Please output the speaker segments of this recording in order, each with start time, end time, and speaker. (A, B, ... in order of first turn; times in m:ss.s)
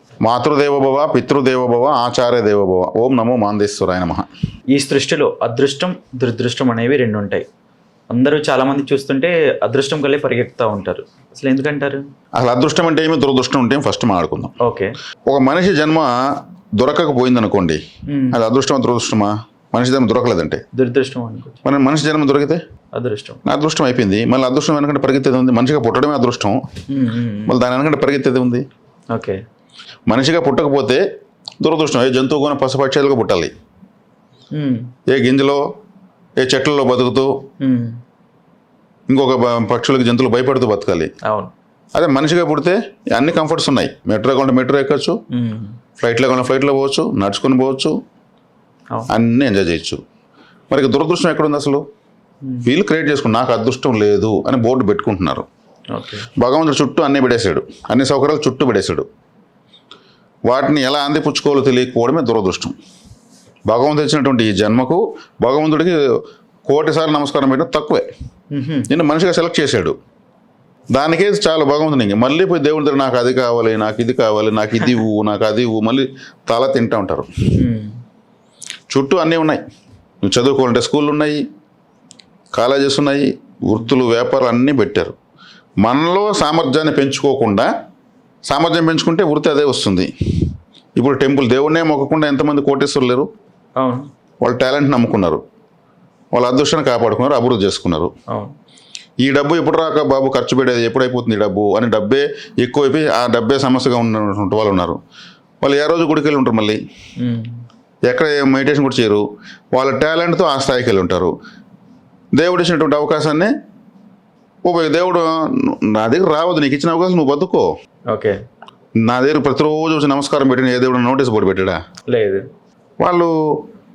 0:00.2-0:04.3 A
0:04.7-0:07.4 B
0:08.1-0:12.1 B
0:12.4-0:14.5 A
0:14.6-0:14.9 B
0:15.3-0:16.1 A
0:16.8-0:17.8 A
0:18.1-0:18.4 B
0:18.3-0:20.6 A
0:20.7-0:21.6 B
0:21.6-0:22.6 A
0:22.9-0:23.4 B
0:23.4-0:26.6 A
0:26.9-0:27.6 B
0:27.5-0:28.6 A
0:29.1-0:29.4 B
0:30.1-0:31.0 A
0:31.6-0:33.5 A
0:34.5-0:34.9 B
0:35.1-0:35.6 A
0:36.4-0:37.3 A
0:37.6-0:38.0 B
0:39.1-0:41.1 A
0:41.2-0:41.5 B
0:42.0-0:45.2 A
0:45.3-0:45.8 B
0:46.0-0:47.9 A
0:49.1-0:50.0 A
0:50.7-0:51.8 A
0:52.6-0:55.5 A
0:55.9-0:56.3 B
0:56.4-0:59.1 A
1:00.5-1:02.7 A
1:03.7-1:06.0 A
1:06.6-1:08.1 A
1:08.5-1:08.9 B
1:08.9-1:09.9 A
1:10.9-1:17.3 A
1:17.5-1:18.0 B
1:18.9-1:19.6 A
1:20.2-1:21.4 A
1:22.5-1:25.1 A
1:25.8-1:27.7 A
1:28.5-1:30.1 A
1:31.0-1:33.3 A
1:33.8-1:34.1 B
1:34.4-1:35.4 A
1:36.3-1:38.1 A
1:39.2-1:45.0 A
1:45.6-1:46.8 A
1:47.2-1:47.6 B
1:48.0-1:51.3 A
1:52.4-1:53.5 A
1:54.6-1:57.7 A
1:58.1-1:58.4 B
1:59.1-2:01.8 A
2:02.1-2:02.4 B
2:03.0-2:03.3 A